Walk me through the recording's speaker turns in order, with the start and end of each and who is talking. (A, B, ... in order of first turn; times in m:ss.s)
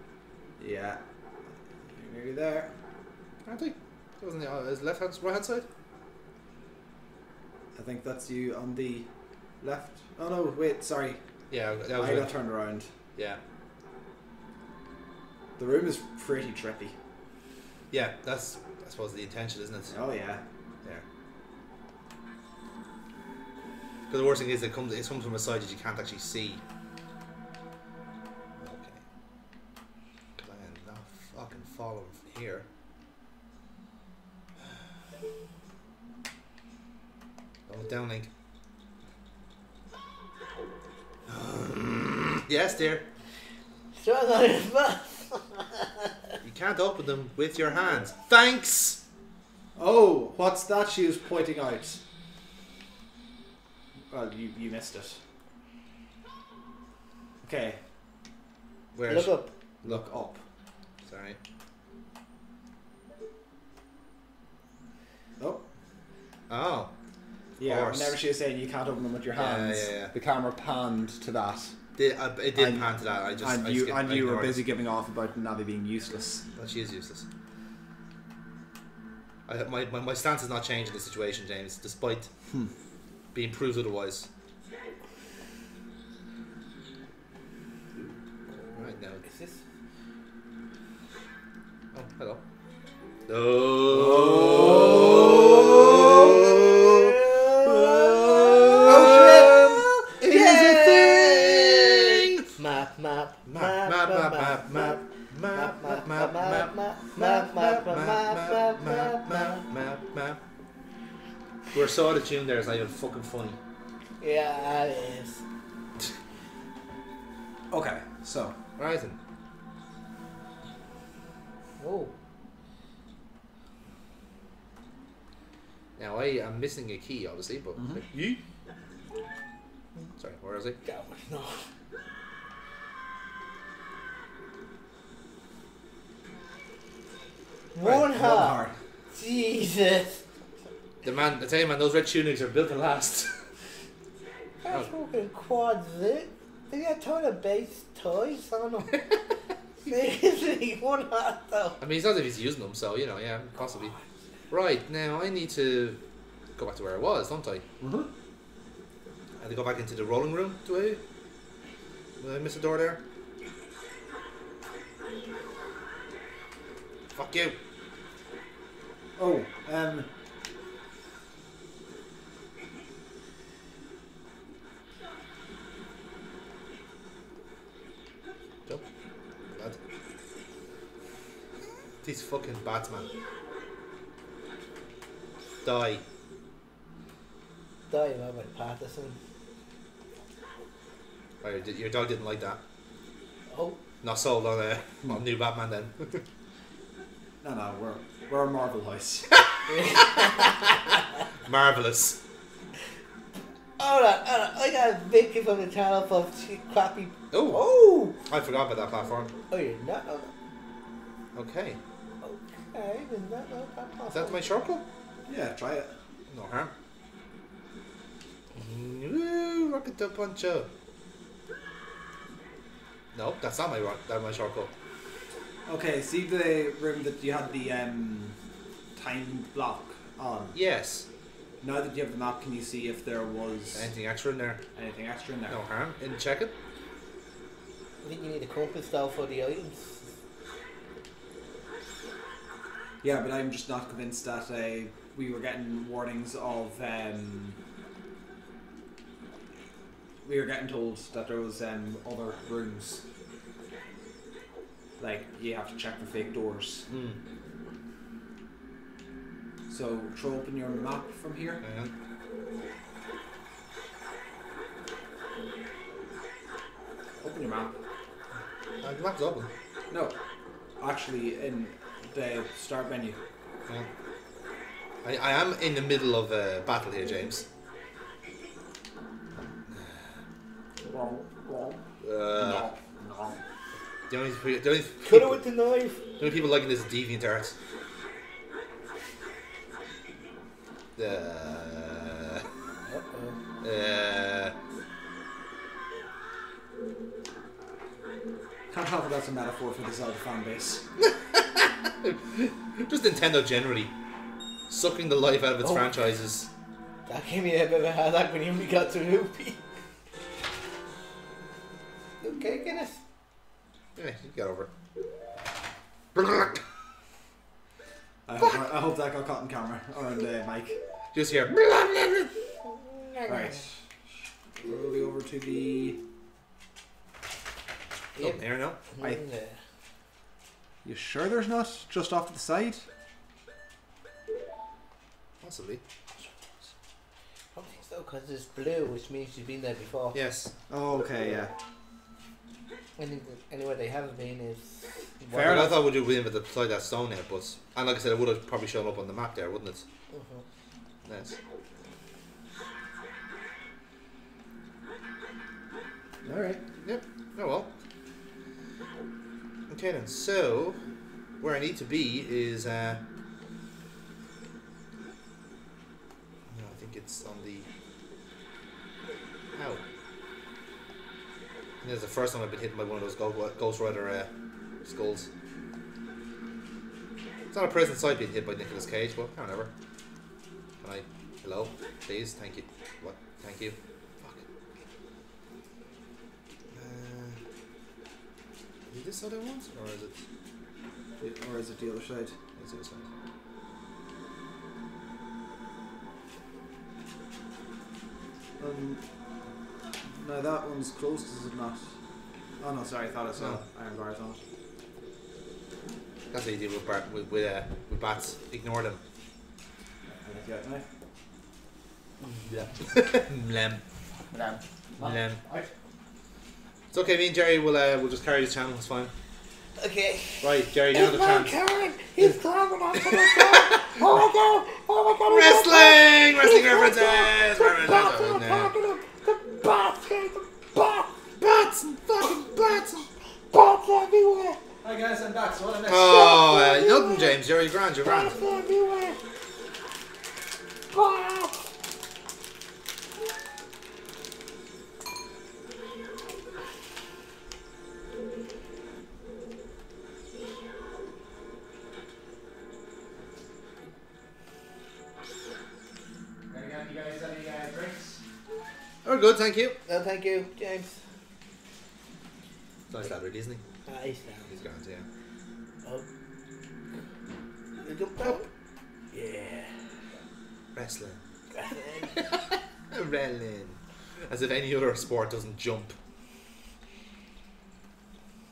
0:00.6-0:01.0 A
0:01.8-0:02.7 A
0:03.4-0:05.6 B
0:07.7-0:09.1 A
0:09.6-0:11.2 A
0:11.5-0:12.4 B
0:11.9-0:12.9 A
0:15.6-0:16.9 A
0:17.9-0:19.9 B
0:19.9-0:20.4 A
0:24.1-0:26.6 B
0:28.6-0:29.0 B
0:30.4-0:32.6 B
0:37.7-0:38.3 B
0:41.3-0:43.0 B
0:43.9-0:46.1 C
0:46.4-0:49.0 B
0:49.8-0:52.0 A
0:54.1-0:55.2 A
0:57.4-0:57.8 A
0:58.9-1:00.1 B
0:59.1-0:59.5 C
0:59.8-1:00.4 A
1:01.1-1:01.4 B
1:05.4-1:05.6 A
1:06.5-1:06.9 B
1:07.6-1:11.7 A
1:07.6-1:08.2 B
1:09.3-1:10.1 B
1:12.0-1:14.6 B
1:12.5-1:16.4 A
1:16.6-1:17.2 B
1:19.5-1:22.3 B
1:23.3-1:24.3 B
1:28.5-1:29.6 C
1:28.8-1:29.2 B
1:31.9-1:32.4 B
1:33.3-1:37.1 B
1:33.9-1:35.2 A
1:35.9-1:49.6 C
1:38.8-1:42.5 B
1:43.4-1:50.4 B
1:51.7-1:53.6 B
1:54.2-1:55.4 C
1:57.7-1:58.6 A
1:58.8-1:59.2 B
2:01.8-2:02.1 C
2:06.0-2:08.4 B
2:07.8-2:08.0 A
2:10.2-2:10.8 B
2:10.8-2:11.6 C
2:17.7-2:18.8 A
2:17.7-2:20.2 C
2:21.0-2:23.5 B
2:24.6-2:28.9 C
2:29.8-2:31.8 C
2:31.8-2:33.9 B
2:34.5-2:36.0 B
2:36.6-2:37.6 B
2:37.8-2:38.1 A
2:39.4-2:41.0 B
2:42.2-2:43.0 B
2:47.1-2:47.6 B
2:49.2-2:50.1 A
2:59.5-2:59.8 B
3:02.0-3:03.1 B
3:05.6-3:06.0 B
3:07.9-3:09.2 C
3:11.4-3:12.6 B
3:13.5-3:13.8 C
3:14.0-3:16.2 B
3:17.4-3:19.3 A
3:19.7-3:20.5 C
3:19.8-3:20.4 B
3:21.4-3:22.2 B
3:23.8-3:28.2 C
3:27.3-3:29.3 B
3:29.5-3:30.3 C
3:31.3-3:31.8 B
3:32.2-3:34.5 C
3:34.1-3:34.8 B
3:35.3-3:35.9 A
3:36.3-3:36.7 B
3:38.6-3:40.7 B
3:43.1-3:44.7 B
3:45.6-3:48.4 A
3:49.0-3:50.6 A
3:50.5-3:51.1 B
3:51.6-3:53.9 A
3:53.7-3:54.6 B
3:54.7-3:55.6 A
3:55.5-3:56.5 B
3:58.0-4:00.1 C
4:03.0-4:07.6 A
4:10.2-4:13.0 A
4:15.0-4:16.8 A
4:16.9-4:17.2 B
4:19.7-4:21.6 A
4:21.6-4:21.9 B
4:27.2-4:27.7 A
4:28.8-4:29.5 B
4:30.8-4:33.2 A
4:35.0-4:37.4 B
4:40.8-4:41.8 A
4:42.0-4:42.7 B
4:42.3-4:43.4 A
4:44.1-4:45.4 B
4:45.0-4:46.0 C
4:46.2-4:47.5 B
4:51.0-4:52.4 B
4:52.8-4:53.4 C
4:53.6-4:54.5 B
4:58.7-5:00.8 A
5:01.0-5:03.9 B
5:04.7-5:06.5 B
5:05.6-5:05.9 C
5:07.0-5:09.6 C
5:12.2-5:13.0 C
5:14.0-5:14.7 B
5:16.1-5:16.6 B
5:18.2-5:20.8 A
5:21.1-5:22.3 B
5:23.2-5:23.7 A
5:24.6-5:26.0 A
5:28.2-5:29.6 C
5:28.2-5:28.8 B
5:30.8-5:32.8 A
5:35.4-5:35.8 B
5:37.5-5:40.2 C
5:40.1-5:40.5 B
5:40.7-5:41.5 A
5:43.0-5:45.6 C
5:45.3-5:45.8 A
5:45.4-5:49.8 B
5:50.1-5:50.4 C
5:51.0-5:51.4 B
5:56.2-5:56.6 A
5:56.8-5:57.7 B
5:59.7-6:00.8 B
6:01.4-6:03.0 B
6:06.5-6:07.7 B
6:09.5-6:09.8 B
6:11.8-6:14.3 B
6:14.8-6:15.3 B
6:17.5-6:19.7 B
6:20.8-6:24.4 B
6:26.7-6:27.4 B
6:28.9-6:30.2 B
6:31.2-6:32.3 A
6:32.6-6:33.0 B
6:38.6-6:39.0 A
6:40.0-6:41.9 A
6:42.6-6:44.4 A
6:46.3-6:49.0 B
6:50.1-6:50.8 A
6:52.4-6:53.8 B
6:54.3-6:55.7 A
6:55.0-6:55.4 B
6:56.9-6:59.1 B
6:59.8-7:11.1 C
7:00.4-7:01.6 B
7:02.9-7:03.8 B
7:05.3-7:08.7 B
7:11.4-7:13.1 B
7:13.5-7:14.6 C
7:14.8-7:16.4 A
7:15.9-7:18.4 B
7:16.0-7:17.4 C
7:18.0-7:19.2 C
7:20.9-7:21.5 C
7:36.5-7:38.2 A
7:39.0-7:39.8 B
7:39.8-7:41.0 C
7:42.9-7:43.6 B
7:43.8-7:44.5 C
7:44.5-7:45.1 B
7:47.8-7:48.5 C
7:48.2-7:48.4 B
7:49.1-7:49.7 C
7:50.7-7:51.2 B
7:51.5-7:52.2 C
7:52.2-7:56.0 B